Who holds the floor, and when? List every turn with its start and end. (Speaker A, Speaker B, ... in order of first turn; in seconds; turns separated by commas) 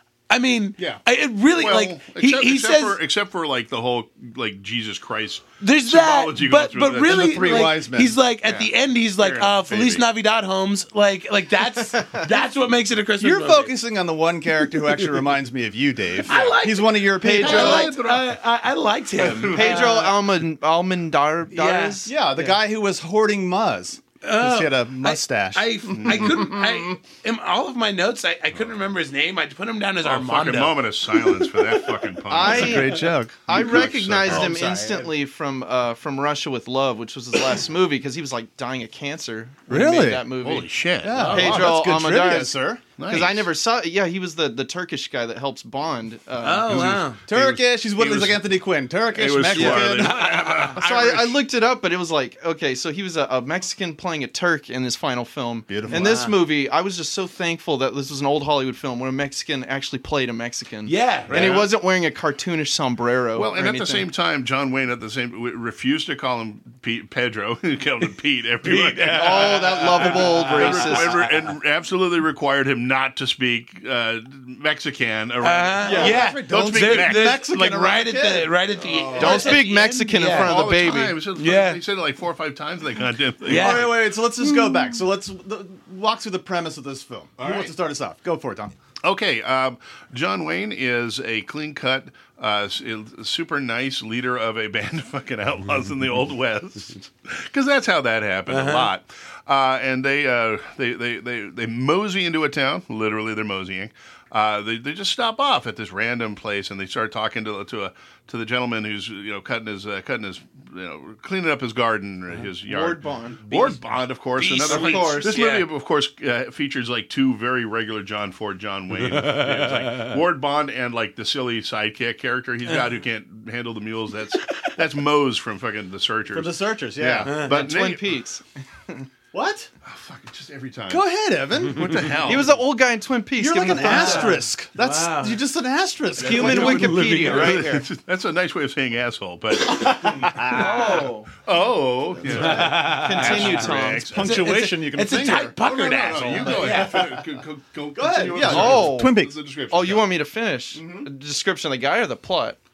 Speaker A: 0.3-3.0, Speaker B: 1.5-7.7, Speaker A: 5.6-13.7, Speaker C: 7.0-8.2, Speaker B: 8.4-10.0, Speaker D: 12.0-12.3, Speaker C: 13.2-17.9, Speaker A: 16.2-20.1, Speaker B: 16.2-16.5, Speaker B: 17.4-18.3, Speaker D: 17.4-17.9, Speaker B: 19.2-20.0, Speaker D: 19.5-22.1, Speaker A: 21.5-22.6, Speaker C: 22.0-26.9, Speaker A: 24.2-30.8, Speaker B: 26.0-26.5, Speaker B: 30.0-33.0, Speaker C: 32.3-35.0, Speaker D: 32.3-42.5, Speaker B: 33.5-34.6, Speaker C: 39.7-40.3, Speaker B: 40.4-41.7, Speaker C: 41.0-42.9, Speaker A: 41.1-41.7, Speaker B: 43.0-43.5, Speaker D: 43.1-47.0, Speaker A: 46.4-47.2, Speaker B: 46.7-48.5, Speaker C: 47.2-50.2, Speaker B: 49.1-51.4, Speaker A: 49.5-50.8, Speaker D: 50.7-64.1, Speaker C: 55.7-56.1, Speaker A: 55.9-56.4, Speaker A: 60.9-61.6, Speaker B: 61.3-61.6, Speaker B: 63.3-77.4, Speaker A: 68.6-71.5, Speaker D: 69.1-71.2, Speaker A: 75.4-80.5, Speaker C: 75.8-79.7, Speaker D: 75.9-76.2, Speaker B: 78.9-79.4, Speaker D: 79.2-81.2, Speaker B: 80.2-84.0, Speaker A: 81.3-81.8, Speaker A: 83.4-83.9, Speaker C: 83.5-88.7, Speaker B: 84.5-84.8, Speaker B: 87.4-87.7, Speaker B: 89.0-128.2, Speaker A: 98.5-98.9, Speaker D: 112.6-113.4, Speaker A: 113.5-115.7, Speaker D: 114.7-115.3, Speaker A: 119.2-120.1, Speaker C: 126.3-127.5, Speaker D: 127.3-129.0, Speaker C: 129.3-129.7, Speaker B: 129.8-131.0, Speaker C: 130.9-132.0, Speaker B: 131.6-132.6, Speaker D: 132.2-134.3, Speaker C: 133.4-137.3, Speaker A: 133.7-135.4, Speaker D: 136.2-137.8, Speaker A: 136.2-137.7, Speaker B: 136.4-144.3, Speaker C: 139.7-141.1, Speaker D: 140.5-141.3, Speaker A: 142.3-147.1, Speaker C: 142.3-145.5, Speaker D: 142.4-144.1, Speaker B: 145.6-150.1, Speaker C: 146.4-147.1, Speaker C: 147.9-149.3, Speaker D: 148.4-152.6, Speaker C: 150.8-151.1